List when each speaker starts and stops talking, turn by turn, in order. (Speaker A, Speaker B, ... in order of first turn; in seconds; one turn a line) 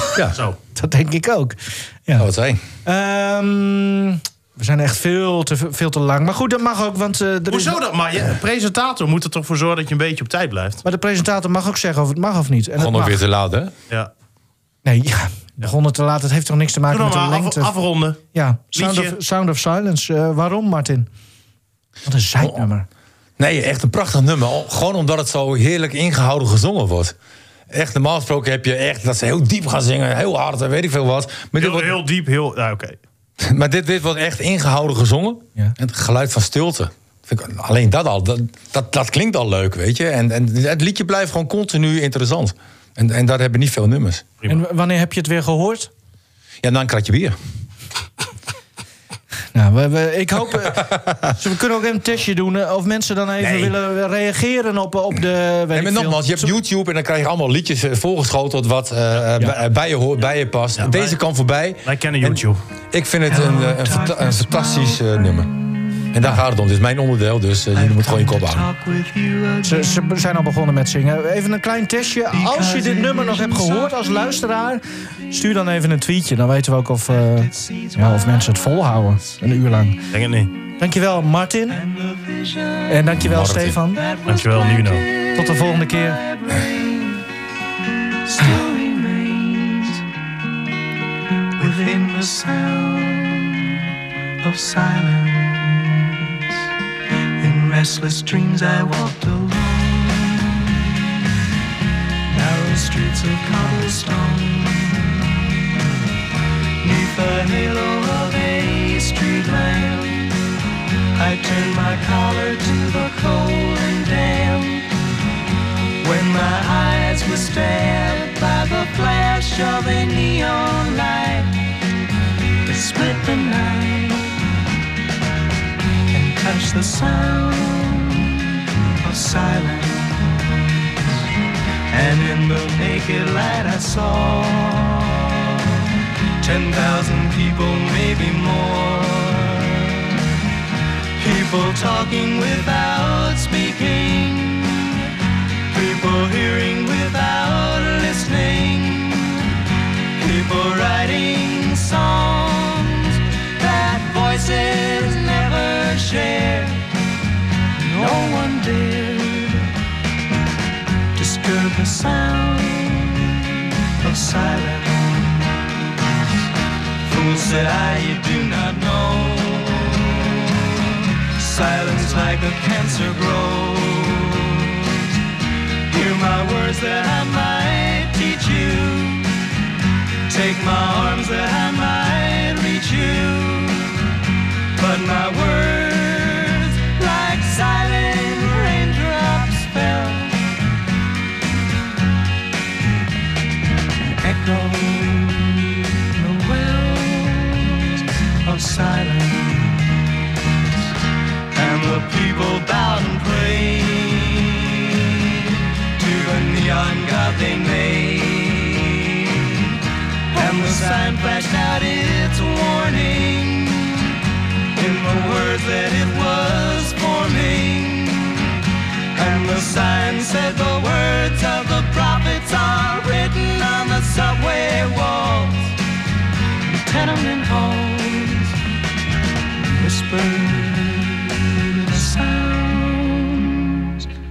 Speaker A: 0.3-0.6
Speaker B: 0.7-2.3
Speaker C: 2.2-2.6
Speaker B: 2.8-7.8
Speaker A: 7.5-10.8
Speaker B: 10.8-13.2
Speaker C: 12.8-13.7
Speaker B: 14.8-17.7
Speaker A: 16.9-18.2
Speaker B: 18.3-21.1
Speaker A: 18.7-19.2
Speaker B: 22.1-22.9
Speaker C: 23.4-27.1
Speaker C: 27.7-32.0
Speaker A: 31.6-33.0
Speaker C: 33.4-44.3
Speaker B: 44.5-45.9
Speaker C: 46.6-47.3
Speaker B: 49.5-56.5
Speaker C: 50.8-51.3
Speaker C: 53.4-53.7
Speaker C: 55.7-65.5
Speaker A: 60.8-61.2
Speaker A: 61.8-62.6
Speaker D: 63.3-66.2
Speaker C: 66.1-68.7
Speaker D: 67.7-70.1
Speaker B: 69.6-80.0
Speaker D: 72.3-74.4
Speaker D: 77.2-78.8
Speaker A: 80.1-80.5
Speaker B: 80.8-81.8
Speaker D: 81.7-83.1
Speaker B: 82.9-84.0
Speaker C: 83.2-83.8
Speaker D: 83.9-87.3
Speaker A: 84.3-85.0
Speaker B: 85.3-86.2
Speaker D: 88.2-90.0
Speaker D: 91.5-93.9
Speaker D: 94.4-96.6
Speaker D: 97.4-101.1
Speaker D: 102.3-105.9
Speaker D: 106.8-110.4
Speaker D: 111.2-114.9
Speaker D: 116.0-121.6
Speaker D: 122.7-124.3
Speaker D: 126.1-131.2
Speaker D: 131.9-140.3
Speaker D: 141.2-145.1
Speaker D: 145.7-149.5
Speaker D: 150.2-156.8
Speaker D: 157.8-159.7
Speaker D: 161.2-166.4
Speaker D: 167.0-175.2
Speaker D: 175.9-179.3
Speaker D: 180.3-184.2
Speaker D: 184.8-190.5
Speaker D: 194.1-200.1
Speaker D: 201.5-209.8
Speaker D: 210.3-214.2
Speaker D: 214.7-218.6
Speaker D: 219.2-225.7
Speaker D: 226.6-228.6
Speaker D: 229.7-234.1